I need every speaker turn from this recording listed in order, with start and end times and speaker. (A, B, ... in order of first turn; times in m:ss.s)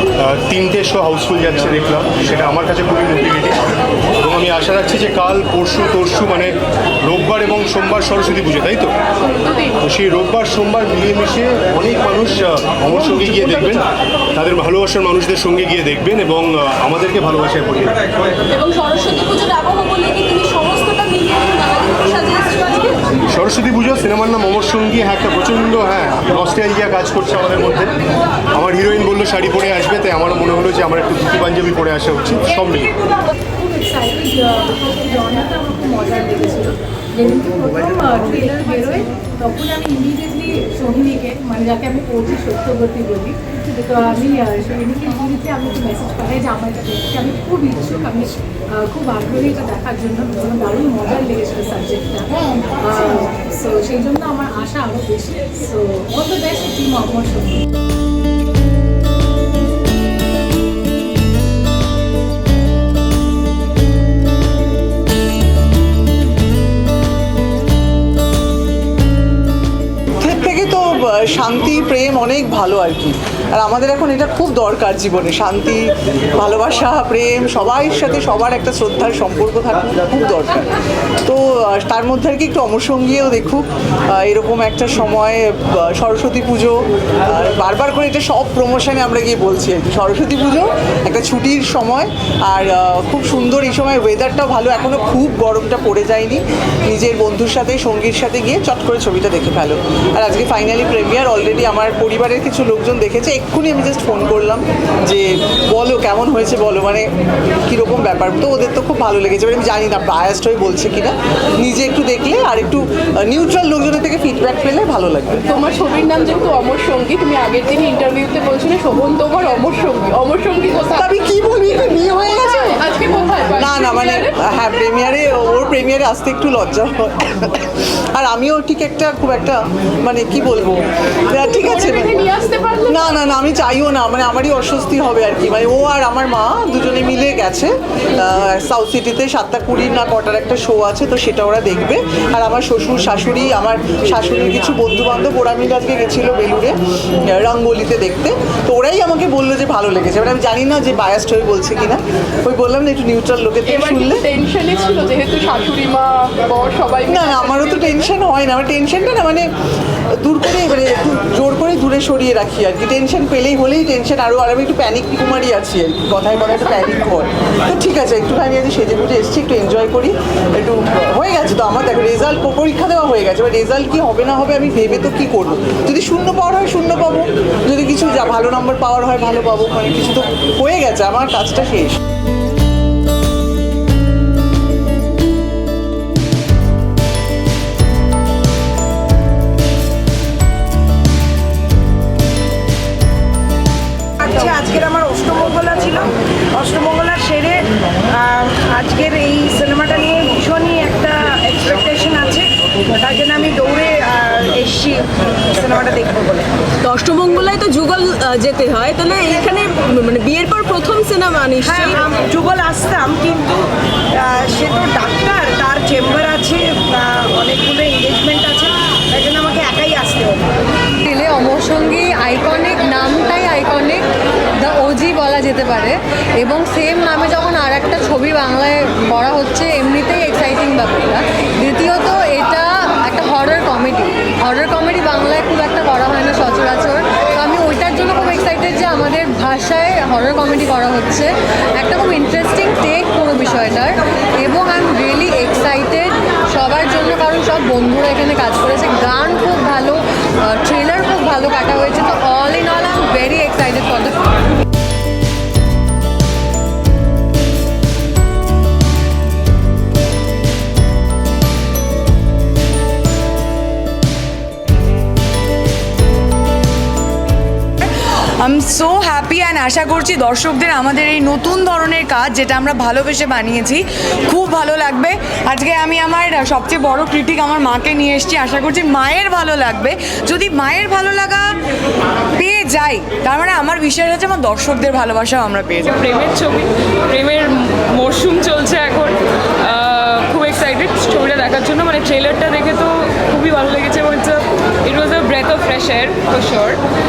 0:00.2-0:03.6 A
0:04.2-0:08.9 A
0:09.3-0:09.7 B
0:09.8-0:13.8 A
0:14.3-0:18.0 A
0:18.5-0:23.0 B
0:23.3-0:27.9 A
0:28.5-0:32.9 A
0:33.6-0:57.5 C
1:10.2-1:20.7 D
1:21.2-1:47.1 D
1:47.6-1:55.5 D
1:55.4-2:01.1 B
2:01.0-2:02.8 D
2:02.4-2:04.3 B
2:03.6-2:12.2 D
2:11.4-2:13.1 B
2:12.9-2:34.2 D
2:33.7-2:37.9 B
2:37.1-2:39.5 D
2:40.1-3:02.0 D
3:14.2-3:26.5 E
3:26.8-3:32.0 F
3:31.6-3:33.6 E
3:34.2-3:40.5 E
3:41.0-3:44.0 G
3:44.6-4:14.3 G
4:28.4-4:41.6 H
4:42.4-4:45.9 H
4:45.9-4:56.8 I